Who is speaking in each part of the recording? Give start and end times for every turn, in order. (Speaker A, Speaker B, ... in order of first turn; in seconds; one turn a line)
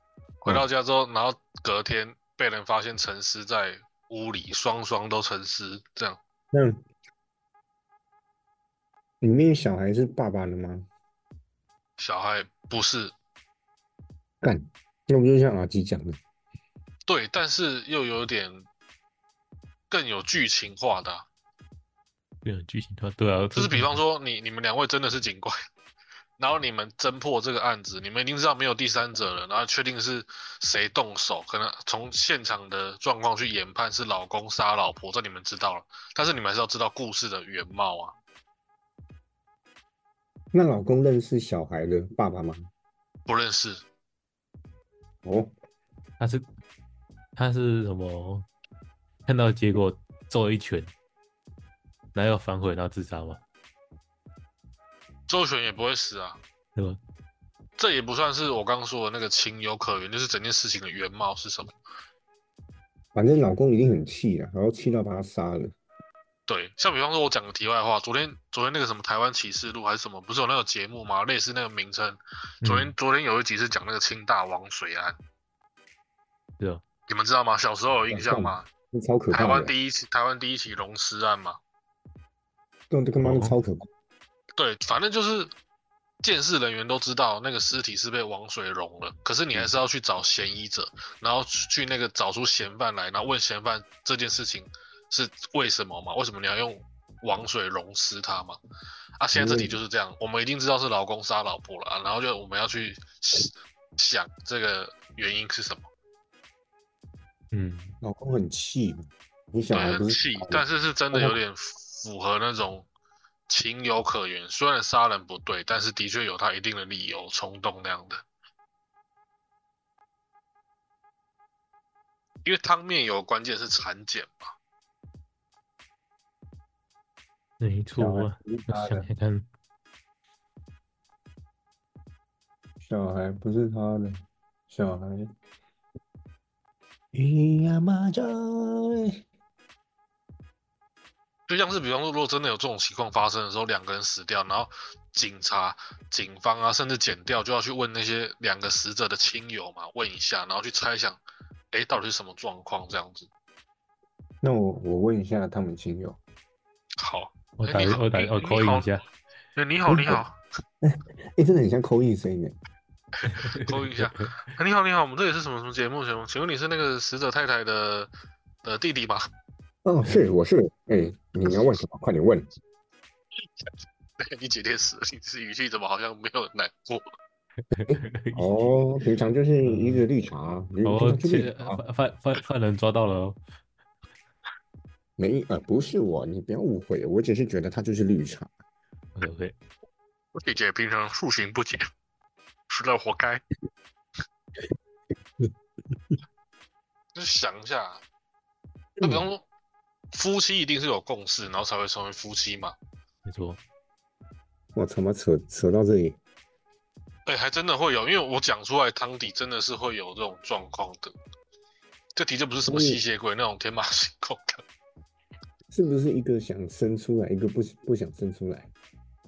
Speaker A: 0.4-6.2
Speaker B: 6.5-6.8
Speaker B: 9.2-10.9
Speaker A: 12.0-13.1
Speaker B: 14.4-16.2
Speaker A: 17.1-18.7
Speaker A: 19.9-21.3
Speaker C: 22.4-23.9
Speaker A: 23.5-25.6
Speaker A: 26.4-38.1
Speaker B: 40.5-42.7
Speaker A: 43.3-43.8
Speaker B: 45.2-45.5
Speaker C: 46.2-46.4
Speaker C: 47.4-48.5
Speaker C: 49.2-50.9
Speaker C: 52.1-53.4
Speaker A: 55.3-56.4
Speaker A: 57.8-61.7
Speaker B: 63.1-65.7
Speaker A: 66.5-75.2
Speaker C: 72.6-72.9
Speaker A: 77.1-78.7
Speaker B: 78.1-79.7
Speaker A: 79.3-81.6
Speaker B: 82.9-83.9
Speaker C: 83.2-83.5
Speaker A: 84.6-85.5
Speaker A: 86.2-98.6
Speaker A: 99.2-105.9
Speaker B: 99.3-99.8
Speaker C: 107.5-107.9
Speaker B: 108.0-111.3
Speaker A: 109.7-112.9
Speaker A: 113.5-118.2
Speaker A: 122.4-124.5
Speaker C: 127.6-129.4
Speaker B: 128.0-129.1
Speaker B: 132.8-135.3
Speaker B: 137.1-139.2
Speaker A: 141.5-151.2
Speaker A: 151.7-153.3
Speaker B: 154.4-156.2
Speaker A: 157.0-158.9
Speaker C: 157.6-159.0
Speaker A: 159.6-160.4
Speaker B: 159.9-160.2
Speaker B: 160.8-162.6
Speaker A: 163.2-168.1
Speaker C: 163.3-164.2
Speaker A: 168.6-169.3
Speaker B: 169.8-172.5
Speaker A: 174.2-177.0
Speaker C: 177.7-178.7
Speaker B: 177.9-181.8
Speaker C: 179.6-180.1
Speaker C: 180.8-183.4
Speaker B: 185.2-188.5
Speaker C: 189.2-189.6
Speaker A: 190.3-191.8
Speaker A: 192.7-193.4
Speaker A: 197.1-198.0
Speaker B: 199.0-199.3
Speaker A: 199.0-199.4
Speaker A: 200.1-202.8
Speaker C: 203.2-203.6
Speaker B: 204.7-206.2
Speaker A: 207.2-211.1
Speaker A: 212.2-214.6
Speaker B: 212.6-213.0
Speaker B: 215.7-218.7